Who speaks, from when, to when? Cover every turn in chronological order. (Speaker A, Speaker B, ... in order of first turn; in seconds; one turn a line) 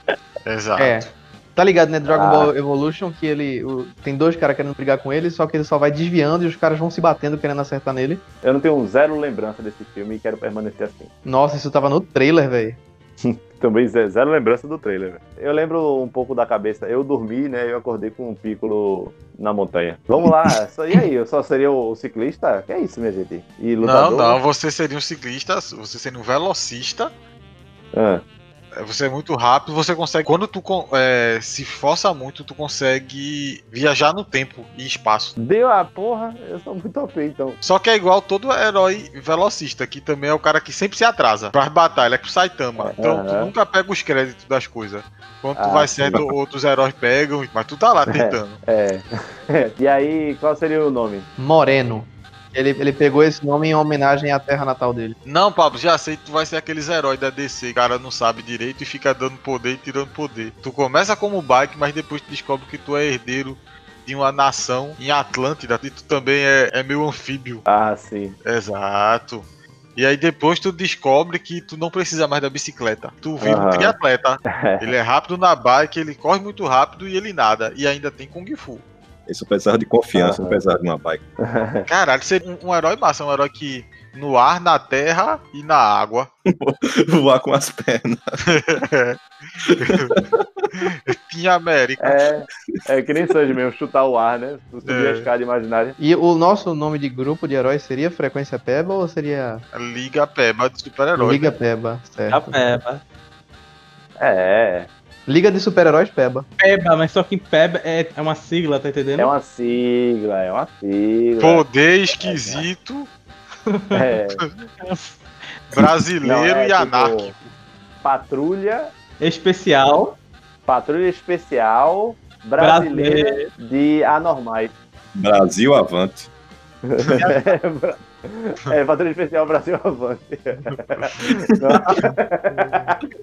Speaker A: 0.4-1.1
Speaker B: 0.8-8.2
Speaker C: 2.1-2.5
Speaker C: 8.4-11.1
Speaker B: 11.2-12.8
Speaker C: 13.2-24.4
Speaker A: 23.8-27.1
Speaker C: 27.9-28.2
Speaker A: 28.8-35.3
Speaker C: 35.4-37.6
Speaker A: 37.6-48.6
Speaker C: 42.8-43.5
Speaker C: 45.6-46.1
Speaker D: 46.0-46.3
Speaker C: 48.0-51.3
Speaker B: 51.4-55.1
Speaker A: 55.2-67.7
Speaker C: 67.7-68.3
Speaker A: 68.4-69.4
Speaker A: 70.0-78.8
Speaker C: 73.4-73.9
Speaker C: 74.5-74.9
Speaker D: 79.3-81.2
Speaker C: 80.1-80.6
Speaker C: 81.4-81.9
Speaker A: 81.9-86.3
Speaker D: 86.5-88.6
Speaker A: 88.5-89.2
Speaker D: 89.6-90.9
Speaker A: 89.8-90.1
Speaker A: 90.8-92.2
Speaker C: 92.0-96.0
Speaker A: 94.8-95.3
Speaker B: 96.0-99.6
Speaker A: 99.7-101.5
Speaker B: 101.2-102.6
Speaker E: 102.3-103.0
Speaker C: 104.2-104.9
Speaker B: 105.3-106.5
Speaker E: 106.6-109.3
Speaker C: 109.2-112.7
Speaker A: 111.4-113.1
Speaker E: 113.7-114.0
Speaker C: 113.9-114.4
Speaker A: 114.4-114.7
Speaker E: 114.8-115.2
Speaker A: 115.7-117.5
Speaker C: 116.2-117.3
Speaker C: 118.0-118.9
Speaker E: 119.2-120.2
Speaker C: 120.7-124.7
Speaker E: 122.6-123.5
Speaker D: 125.2-126.3
Speaker C: 126.9-133.0
Speaker A: 127.1-127.5